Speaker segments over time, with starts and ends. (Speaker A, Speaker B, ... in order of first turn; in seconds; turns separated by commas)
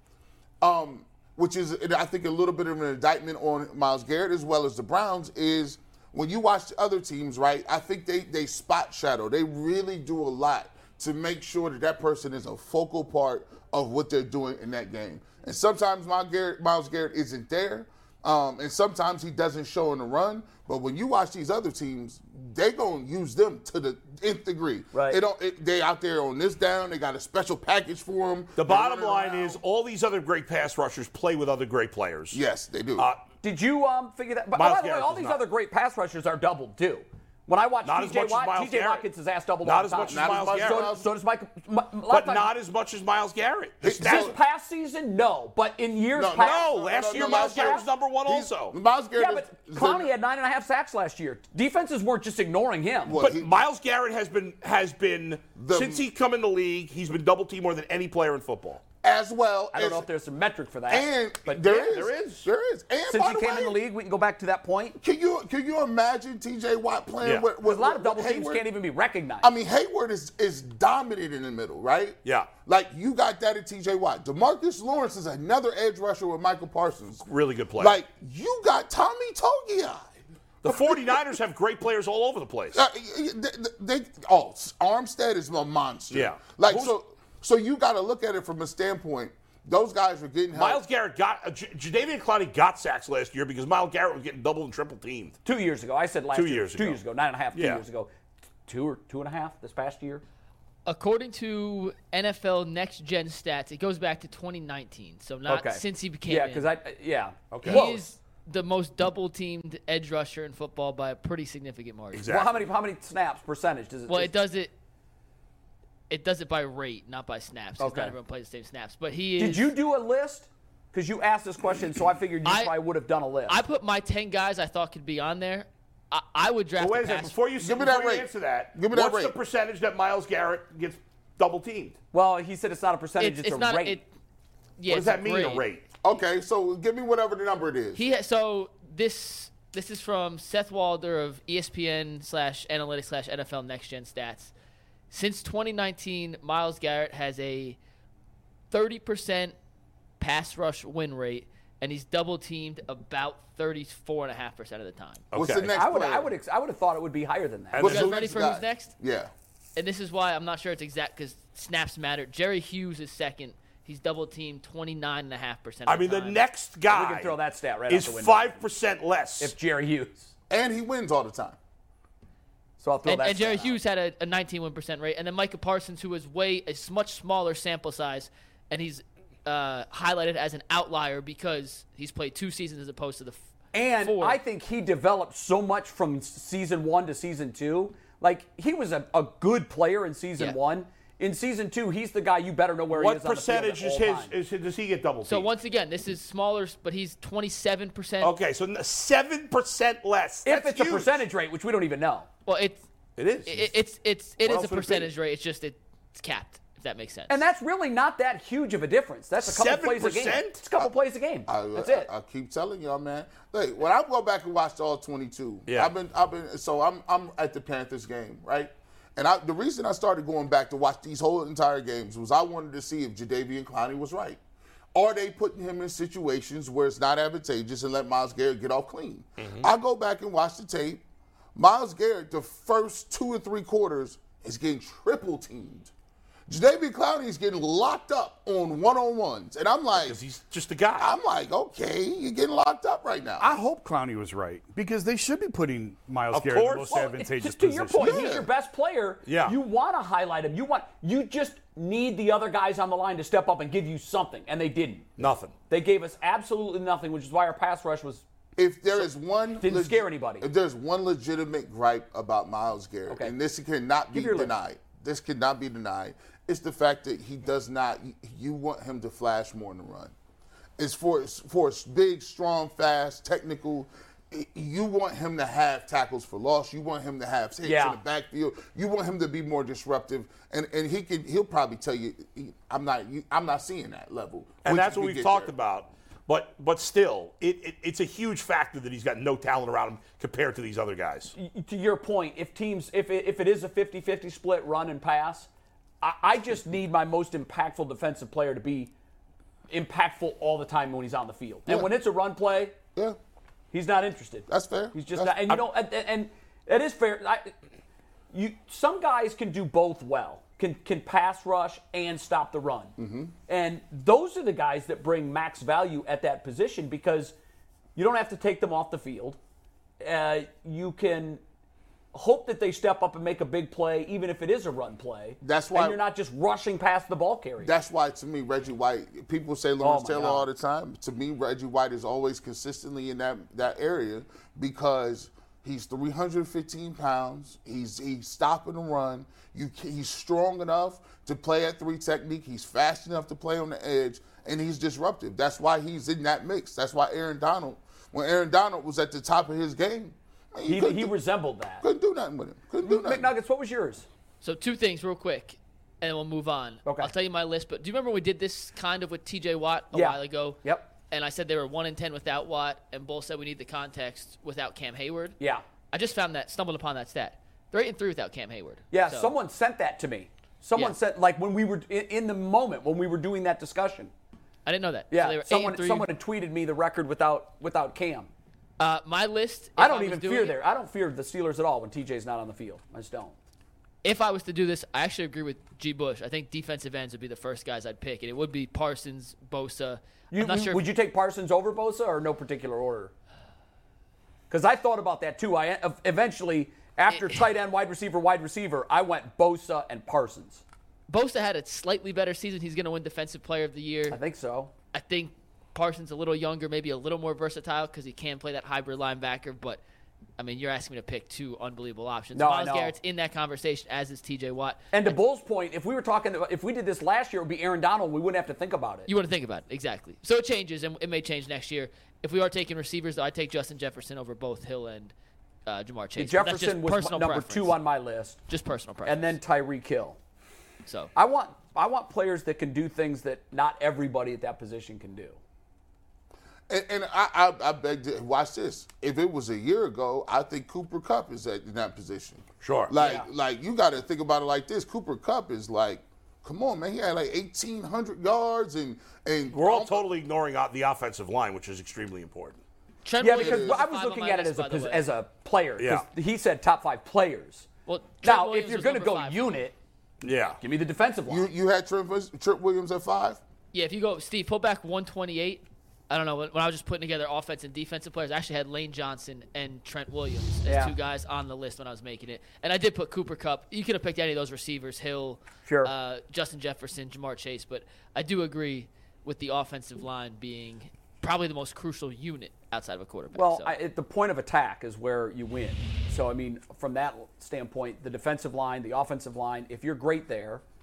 Speaker A: 0.6-29.6, Speaker B: 24.9-25.2, Speaker C: 28.6-32.4, Speaker A: 32.3-33.1, Speaker C: 33.0-33.2, Speaker B: 33.4-42.5, Speaker C: 34.5-35.4, Speaker C: 37.8-39.1, Speaker C: 39.6-40.9, Speaker A: 40.1-41.0, Speaker C: 42.1-44.3, Speaker A: 43.8-44.3, Speaker B: 44.0-47.9, Speaker A: 46.1-50.1, Speaker C: 46.3-48.8, Speaker B: 49.1-53.1, Speaker A: 53.0-53.5, Speaker C: 53.1-58.8, Speaker A: 55.5-56.0, Speaker A: 59.0-60.1, Speaker B: 59.7-61.8, Speaker A: 60.9-63.8, Speaker C: 61.6-62.4, Speaker B: 63.1-65.0, Speaker A: 65.0-68.7, Speaker C: 67.2-67.5, Speaker B: 67.6-69.5, Speaker A: 69.4-77.2, Speaker C: 72.2-72.5, Speaker C: 77.2-78.0, Speaker A: 77.8-80.1, Speaker A: 80.6-81.4, Speaker C: 80.6-82.8, Speaker A: 82.7-90.8, Speaker C: 86.1-86.9, Speaker C: 90.5-95.4, Speaker B: 95.4-98.1, Speaker C: 96.3-97.0, Speaker C: 97.5-97.8, Speaker B: 98.7-100.2, Speaker D: 100.8-106.7, Speaker B: 105.5-108.0, Speaker C: 107.5-107.9, Speaker D: 107.6-112.2, Speaker C: 112.1-112.7, Speaker B: 112.2-114.3, Speaker D: 114.1-114.7, Speaker D: 116.1-119.7, Speaker B: 117.8-118.1, Speaker B: 119.4-123.6, Speaker D: 122.4-122.7, Speaker D: 123.5-127.3, Speaker C: 126.8-132.0, Speaker A: 127.6-129.4, Speaker B: 132.1-134.0, Speaker D: 133.2-134.1, Speaker D: 134.8-135.6, Speaker C: 134.9-135.9, Speaker A: 136.0-138.0, Speaker D: 137.9-144.5, Speaker D: 145.1-147.8, Speaker D: 148.7-149.5, Speaker D: 150.2-155.2, Speaker C: 155.3-155.7, Speaker A: 155.3-156.3, Speaker B: 155.7-158.0, Speaker C: 157.7-158.2, Speaker A: 157.8-159.3, Speaker D: 157.8-158.9, Speaker D: 159.8-166.4, Speaker C: 165.8-167.4, Speaker B: 166.9-168.6, Speaker C: 167.9-169.5, Speaker B: 169.4-170.3, Speaker A: 170.5-171.6, Speaker B: 172.8-173.8, Speaker D: 173.0-183.4, Speaker B: 183.7-194.3, Speaker D: 184.0-184.4, Speaker C: 192.9-195.5, Speaker D: 195.2-198.3, Speaker C: 198.2-201.2, Speaker B: 200.4-202.3, Speaker D: 202.4-202.8, Speaker C: 203.2-203.7, Speaker D: 203.4-207.4, Speaker C: 204.4-205.1, Speaker B: 207.3-212.1, Speaker C: 209.4-210.6, Speaker A: 211.5-224.4, Speaker A: 224.9-231.0, Speaker C: 229.4-229.7, Speaker A: 231.5-235.9, Speaker A: 236.5-240.2, Speaker C: 239.9-241.1, Speaker A: 241.0-243.5, Speaker E: 243.4-248.3, Speaker C: 246.3-247.0, Speaker B: 246.9-255.1, Speaker A: 248.0-248.5, Speaker C: 249.2-249.6, Speaker C: 255.2-255.5, Speaker B: 255.7-258.2, Speaker A: 258.6-270.1, Speaker B: 258.9-260.5, Speaker B: 263.1-263.3, Speaker B: 264.1-264.5, Speaker A: 270.8-285.5, Speaker B: 277.6-278.0, Speaker C: 284.6-291.3, Speaker B: 291.3-295.5, Speaker B: 296.0-298.9, Speaker B: 299.7-302.8, Speaker A: 301.7-301.9, Speaker B: 303.7-307.5, Speaker A: 304.5-305.6, Speaker B: 308.3-312.9, Speaker A: 313.0-313.3, Speaker B: 313.5-317.3, Speaker B: 317.9-319.4, Speaker B: 320.0-321.4, Speaker B: 322.1-327.7, Speaker A: 325.4-326.0, Speaker A: 327.6-351.1, Speaker B: 329.8-330.4, Speaker B: 350.6-351.8, Speaker A: 351.8-353.3, Speaker B: 352.8-354.1, Speaker D: 354.4-365.4, Speaker B: 356.8-357.1, Speaker B: 359.9-360.9, Speaker D: 365.9-369.3, Speaker B: 368.9-374.1, Speaker D: 374.6-376.1, Speaker B: 375.1-378.3, Speaker D: 378.8-380.6, Speaker B: 379.8-383.4, Speaker D: 384.0-390.8, Speaker B: 390.3-393.1, Speaker B: 394.5-400.6, Speaker D: 397.1-397.4, Speaker D: 401.1-404.2, Speaker B: 404.1-404.7, Speaker D: 404.9-409.8, Speaker D: 410.4-415.2, Speaker B: 412.3-412.9, Speaker B: 414.9-419.1, Speaker D: 419.1-425.1, Speaker D: 425.6-427.8, Speaker B: 426.2-428.4, Speaker D: 428.5-429.3, Speaker B: 429.0-430.2, Speaker D: 430.8-431.1, Speaker B: 431.1-435.4, Speaker A: 436.7-450.1, Speaker C: 442.6-442.9, Speaker B: 443.0-443.2, Speaker C: 449.5-452.6, Speaker D: 453.0-455.0, Speaker B: 453.2-457.6, Speaker A: 453.3-453.8, Speaker C: 455.8-456.1, Speaker D: 457.9-459.5, Speaker B: 458.2-459.7, Speaker C: 460.2-460.6, Speaker B: 460.6-461.5, Speaker A: 461.3-463.4, Speaker D: 463.7-483.7, Speaker B: 470.6-470.9, Speaker B: 475.6-475.9, Speaker B: 483.3-490.6